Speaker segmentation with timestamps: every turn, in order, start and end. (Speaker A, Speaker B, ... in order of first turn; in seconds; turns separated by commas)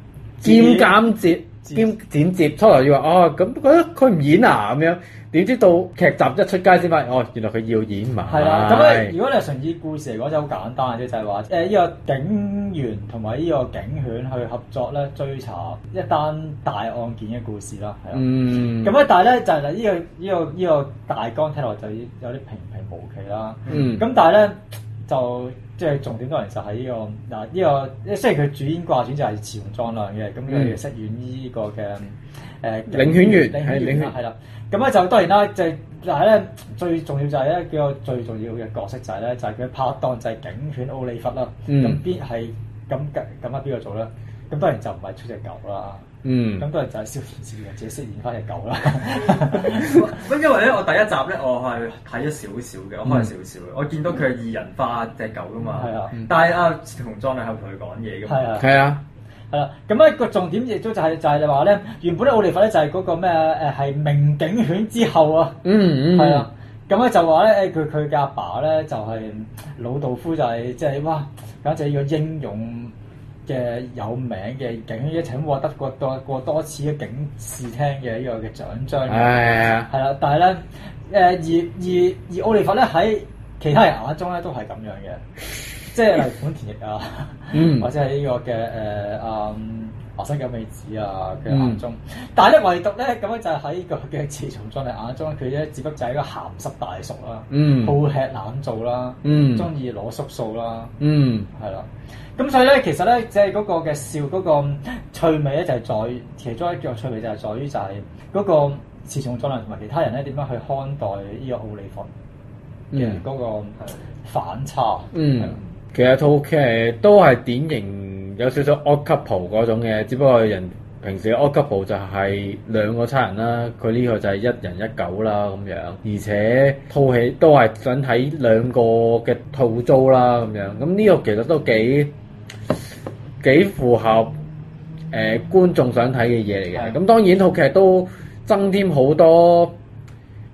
Speaker A: 0.4-9.2, Speaker B: 0.4-1.1, Speaker B: 1.6-1.9, Speaker B: 8.3-46.1, Speaker A: 18.1-19.0, Speaker C: 23.6-23.9, Speaker A: 23.7-24.0, Speaker A: 30.5-30.8, Speaker A: 32.9-34.1, Speaker A: 41.7-42.0, Speaker A: 46.2-46.6, Speaker B: 46.6-50.1, Speaker C: 49.4-58.6, Speaker B: 55.7-56.2, Speaker B: 58.2-58.7, Speaker A: 58.6-59.0, Speaker B: 59.5-72.9, Speaker A: 65.6-66.5, Speaker B: 73.5-85.2, Speaker A: 79.1-79.9, Speaker B: 85.8-101.0, Speaker A: 87.5-87.9, Speaker A: 91.5-91.8, Speaker A: 97.5-98.0, Speaker A: 99.2-99.7, Speaker A: 101.0-101.5, Speaker B: 101.5-112.1, Speaker A: 112.9-113.2, Speaker B: 112.9-115.5, Speaker A: 115.1-132.1, Speaker A: 133.4-134.3, Speaker A: 135.1-139.8